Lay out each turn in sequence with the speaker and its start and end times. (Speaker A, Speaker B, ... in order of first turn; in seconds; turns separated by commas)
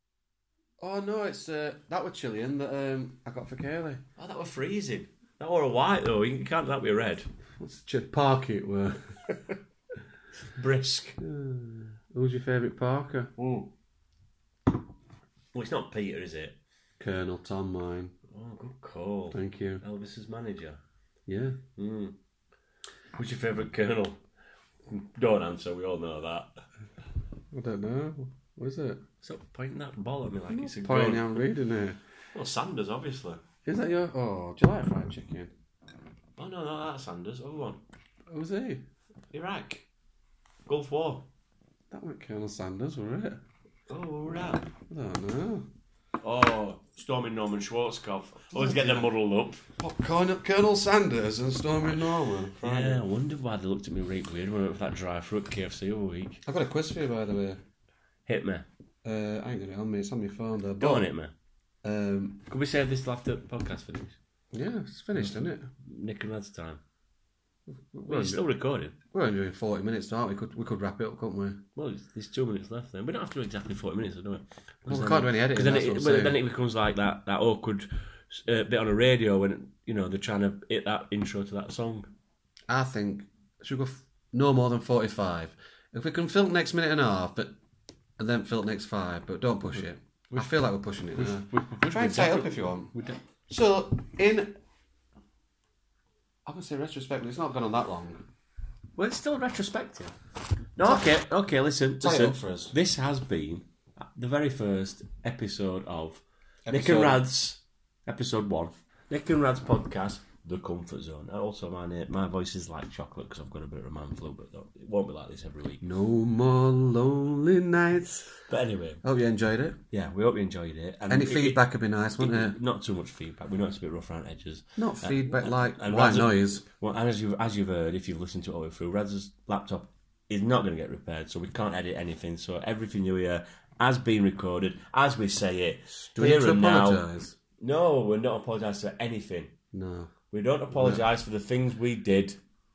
Speaker A: 0.8-4.0, Speaker B: 4.2-7.3, Speaker A: 7.6-9.4, Speaker B: 10.5-11.2, Speaker A: 11.2-13.3, Speaker B: 13.4-13.7, Speaker B: 15.5-16.6, Speaker A: 17.0-18.1, Speaker B: 18.3-20.8, Speaker A: 19.3-19.8, Speaker A: 21.3-21.6, Speaker B: 21.8-22.1, Speaker B: 23.1-24.2, Speaker B: 24.9-26.6, Speaker A: 27.5-29.0, Speaker B: 29.2-31.4, Speaker A: 30.5-32.0, Speaker B: 32.3-33.4, Speaker A: 33.6-35.5, Speaker B: 36.4-37.8, Speaker A: 38.3-38.8, Speaker B: 39.3-39.8, Speaker B: 40.6-41.2, Speaker A: 41.9-43.4, Speaker B: 43.9-44.7, Speaker A: 44.9-45.6, Speaker B: 46.2-49.6, Speaker A: 48.5-49.1, Speaker A: 49.8-53.0, Speaker B: 52.6-56.4, Speaker A: 56.4-57.6, Speaker B: 58.2-58.6, Speaker A: 59.0-61.1, Speaker B: 60.8-61.3, Speaker A: 61.8-62.4, Speaker B: 62.5-64.2, Speaker A: 64.5-65.7, Speaker B: 65.1-66.8, Speaker A: 67.9-68.4, Speaker B: 68.0-68.9, Speaker A: 69.1-71.6, Speaker B: 71.8-82.1, Speaker A: 74.9-76.4, Speaker A: 82.7-87.5, Speaker A: 88.2-92.9, Speaker B: 89.7-90.6, Speaker B: 91.1-93.2, Speaker A: 93.5-94.5, Speaker A: 96.5-98.2, Speaker B: 99.0-100.1, Speaker B: 100.8-115.8, Speaker A: 102.0-102.7, Speaker A: 106.7-107.2, Speaker A: 115.8-118.3, Speaker B: 118.5-119.0, Speaker A: 119.0-119.8, Speaker B: 119.9-121.6, Speaker A: 121.1-122.5, Speaker B: 122.2-137.0, Speaker A: 124.8-126.6, Speaker A: 136.1-137.3, Speaker B: 137.6-139.5, Speaker A: 139.7-140.1, Speaker B: 140.3-142.4, Speaker A: 140.7-141.0